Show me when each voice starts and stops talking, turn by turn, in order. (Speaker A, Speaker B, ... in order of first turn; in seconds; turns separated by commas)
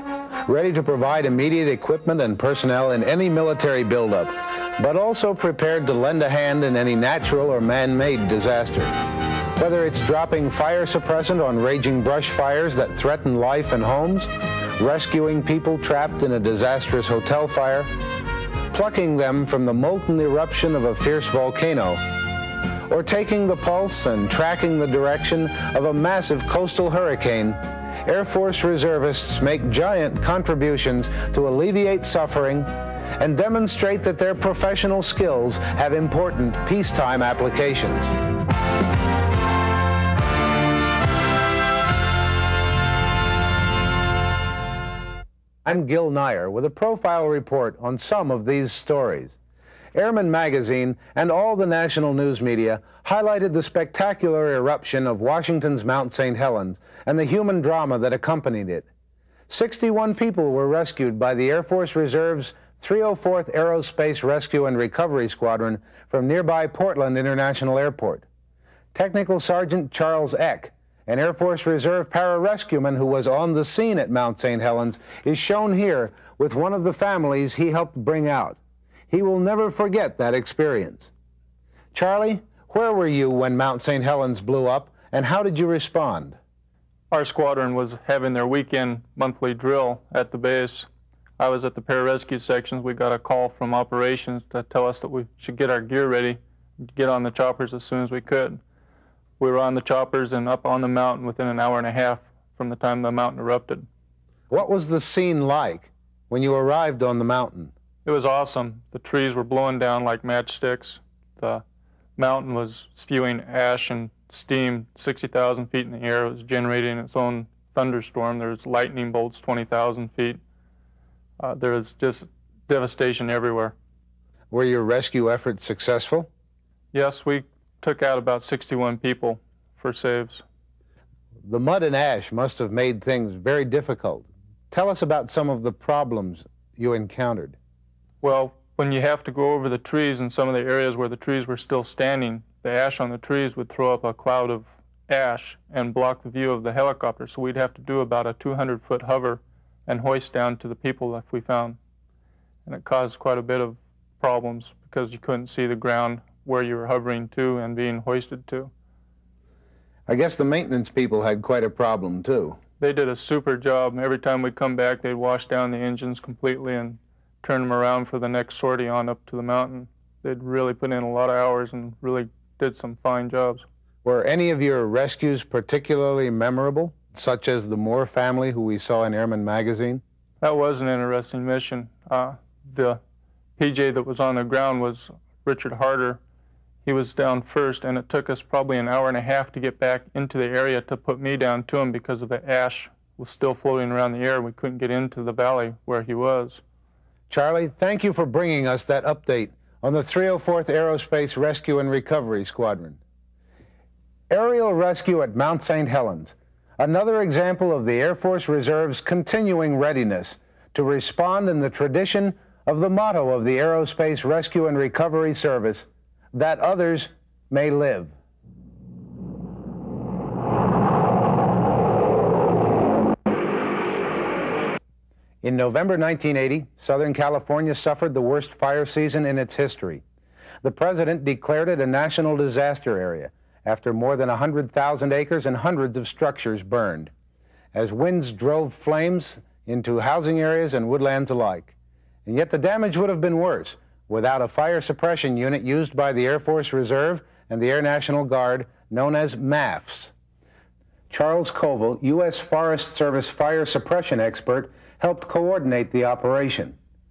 Speaker A: 0.5-8.9, Speaker A: 9.6-17.9, Speaker A: 18.7-22.0, Speaker A: 22.9-38.1, Speaker A: 45.6-49.4, Speaker A: 50.0-58.9, Speaker A: 59.5-68.2, Speaker A: 68.9-78.6, Speaker A: 79.1-81.1, Speaker A: 81.9-86.3, Speaker B: 87.1-90.9, Speaker B: 91.4-98.6, Speaker B: 99.4-103.8, Speaker A: 104.5-107.7, Speaker B: 108.0-111.6, Speaker B: 112.2-120.4, Speaker B: 121.4-123.7, Speaker A: 124.5-126.3, Speaker B: 126.9-130.4, Speaker A: 131.5-137.6, Speaker B: 138.2-151.8, Speaker B: 152.7-158.7, Speaker A: 160.1-162.6, Speaker B: 162.8-173.6, Speaker A: 174.0-180.0, Speaker B: 180.4-183.0, Speaker B: 183.6-186.2, Speaker B: 186.8-196.6, Speaker A: 197.3-203.0, Speaker A: 204.3-218.1, Speaker A: 225.4-230.0, Speaker A: 230.6-237.1, Speaker A: 237.7-241.7, Speaker A: 242.2-250.1, Speaker A: 251.1-256.8